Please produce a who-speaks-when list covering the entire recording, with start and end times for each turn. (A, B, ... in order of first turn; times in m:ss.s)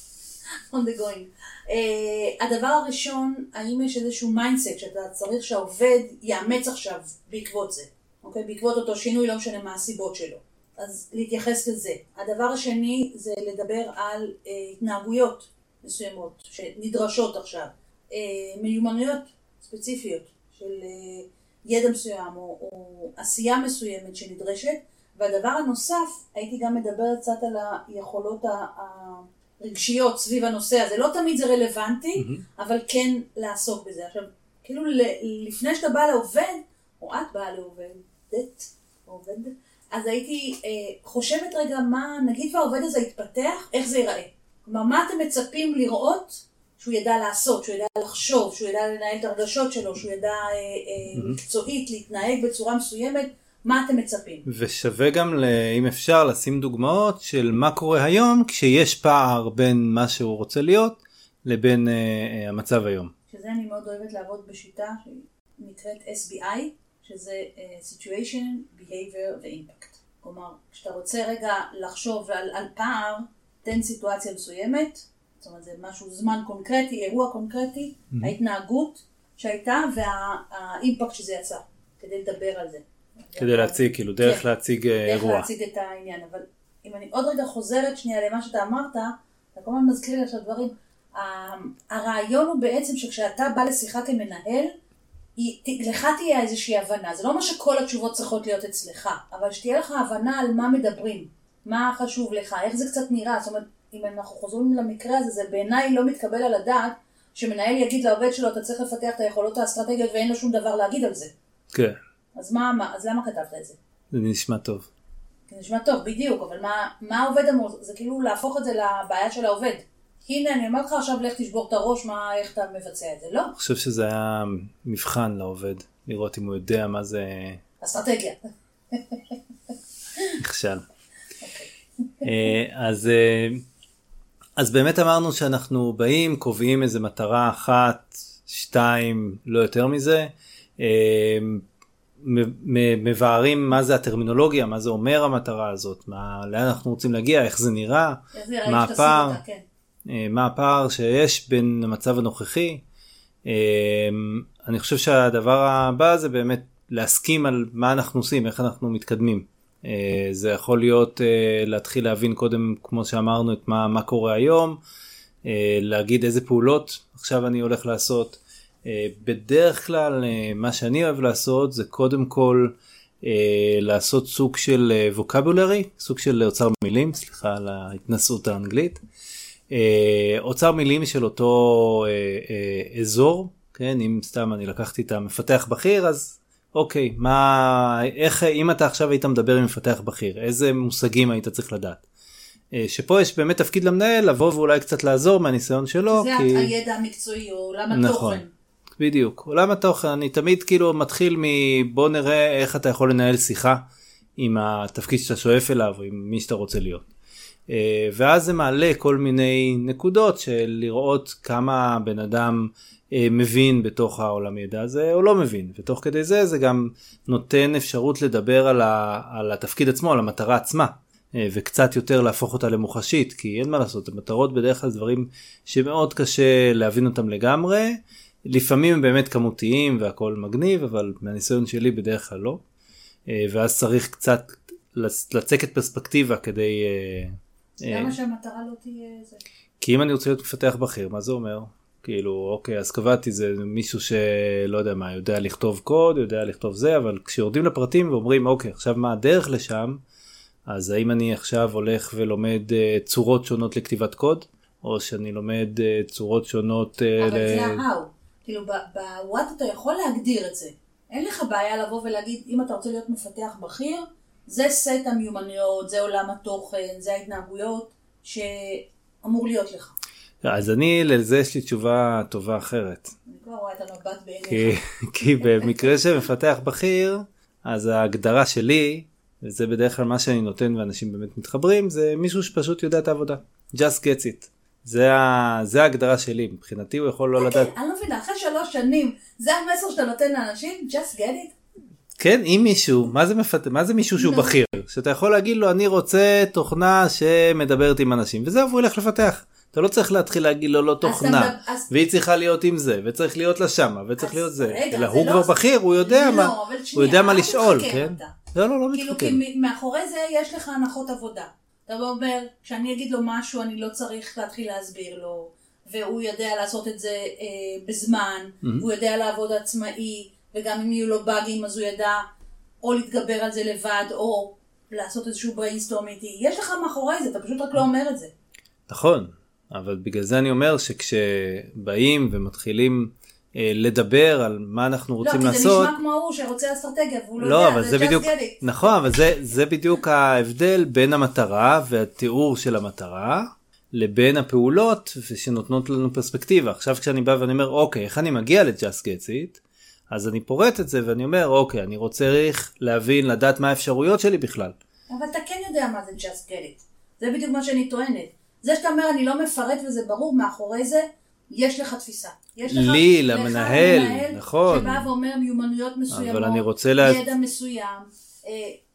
0:00.7-0:54.5 A
0:32.2-0:32.4 B
0:54.5-1:03.1 B
1:03.3-1:24.4 A
1:23.4-1:25.5 B
1:25.0-1:34.7 A
1:35.4-1:51.3 A
1:51.7-1:52.0 B
1:52.4-1:53.8 A
1:54.1-1:54.9 B
1:55.5-2:03.5 A
2:03.6-2:07.6 B
2:07.8-2:08.4 A
2:08.9-2:09.3 A
2:10.4-2:10.8 B
2:11.4-2:11.7 A
2:12.2-2:13.6 B
2:14.6-2:21.6 B
2:22.2-2:29.4 B
2:28.3-2:29.6 A
2:30.1-2:32.8 B
2:33.4-2:44.8 B
2:45.4-2:59.0 B
2:59.7-3:12.0 B
3:12.7-3:16.7 B
3:16.1-3:18.5 A
3:17.9-3:18.4 B
3:19.0-3:23.9 B
3:24.4-3:27.0 B
3:27.7-3:52.6 B
3:53.3-3:58.1 B
3:57.8-3:59.4 A
3:59.8-4:10.0 B
4:10.7-4:17.8 B
4:17.2-4:30.0 A
4:30.4-4:33.1 B
4:33.3-4:34.8 A
4:34.5-4:47.7 B
4:47.4-4:51.6 A
4:52.2-5:09.4 B
4:54.2-4:54.6 A
5:01.0-5:01.9 A
5:04.2-5:08.4 A
5:08.9-5:22.3 A
5:22.8-5:28.3 A
5:28.9-5:36.0 B
5:35.2-5:39.0 A
5:37.4-5:54.8 B
5:55.1-6:08.8 A
6:02.7-6:05.1 B
6:06.1-6:07.2 B